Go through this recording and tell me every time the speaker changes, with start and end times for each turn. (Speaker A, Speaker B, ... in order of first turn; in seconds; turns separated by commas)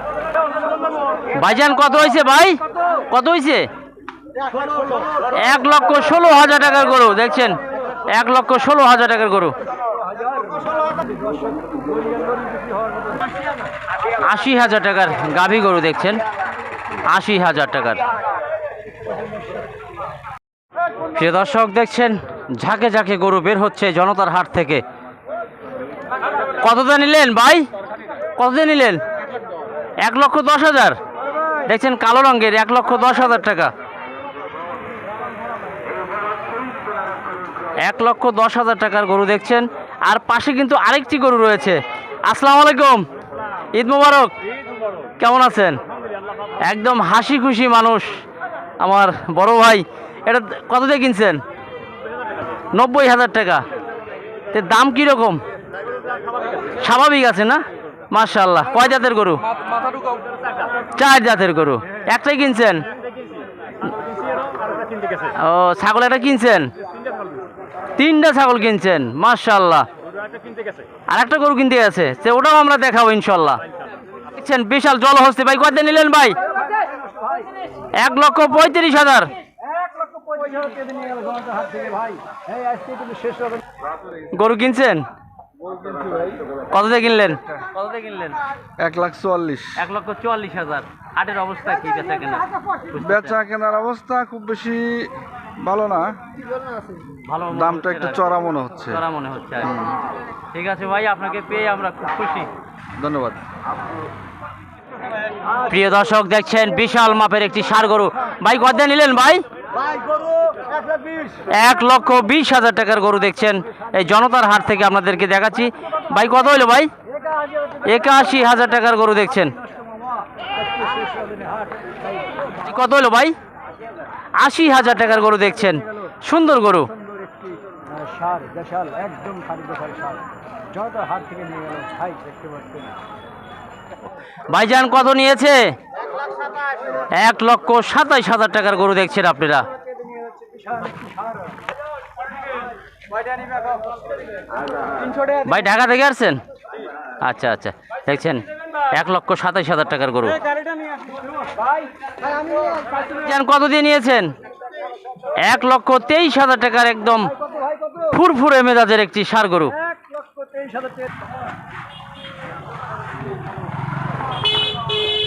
Speaker A: 1.3-3.7, Speaker A: 5.2-9.6, Speaker A: 14.2-16.2, Speaker A: 17.1-18.1, Speaker A: 21.1-24.8, Speaker A: 26.6-27.7, Speaker A: 28.4-29.0, Speaker A: 30.0-31.0, Speaker A: 31.6-33.7, Speaker A: 37.8-43.1, Speaker A: 43.7-44.3, Speaker A: 45.2-45.8, Speaker A: 46.6-48.2, Speaker A: 48.8-51.4, Speaker A: 52.7-53.6, Speaker A: 54.5-55.4, Speaker A: 56.8-59.4, Speaker A: 61.0-62.8, Speaker A: 65.2-66.7, Speaker A: 68.0-69.9, Speaker A: 71.1-73.6, Speaker A: 74.3-76.4, Speaker B: 76.8-77.5, Speaker A: 78.0-79.3, Speaker B: 79.7-83.6, Speaker A: 84.3-85.1, Speaker A: 86.7-88.4, Speaker C: 88.8-89.8, Speaker A: 89.8-93.4, Speaker C: 93.0-96.2, Speaker A: 97.2-99.9, Speaker C: 97.5-99.0, Speaker A: 100.5-102.5, Speaker C: 103.0-103.4, Speaker A: 105.7-109.4, Speaker B: 111.0-111.3, Speaker A: 111.5-116.9, Speaker A: 117.8-119.6, Speaker B: 120.7-122.3, Speaker A: 122.5-123.4, Speaker A: 124.4-126.9, Speaker B: 127.9-130.2, Speaker B: 130.7-132.9, Speaker A: 134.5-135.8, Speaker A: 137.2-139.7, Speaker A: 145.3-146.4, Speaker A: 147.2-150.4, Speaker B: 150.7-151.1, Speaker A: 153.1-154.3, Speaker A: 155.4-157.3, Speaker A: 158.0-159.8, Speaker B: 160.1-161.1